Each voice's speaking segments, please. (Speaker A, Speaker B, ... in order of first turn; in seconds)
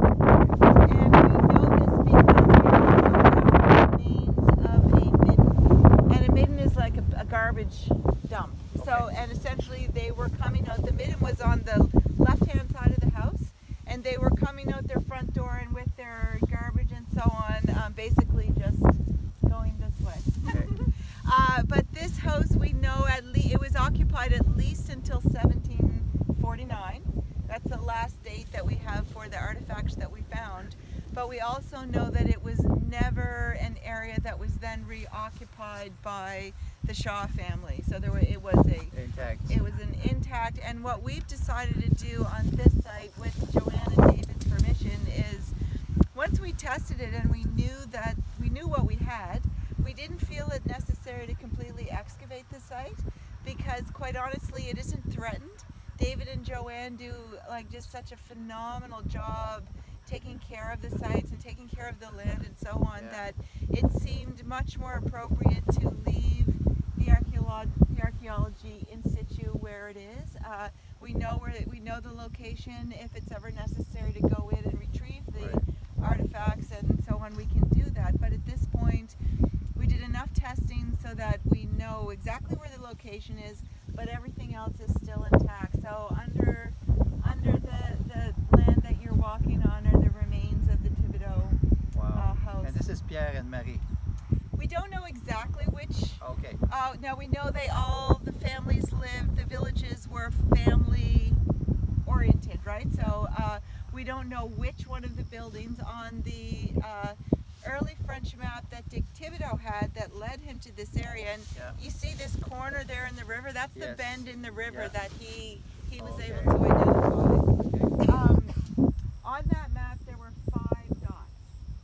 Speaker A: 0.7-39.0, 39.5-45.5, 46.1-79.2, 79.8-91.6, 92.1-92.8, 94.6-101.4, 102.0-117.5, 118.0-118.6, 119.2-121.4
Speaker B: 8.8-9.1, 20.4-20.7, 38.9-39.6, 63.0-63.2, 91.9-93.9, 96.2-96.6, 113.8-115.0, 116.0-116.6, 117.7-118.0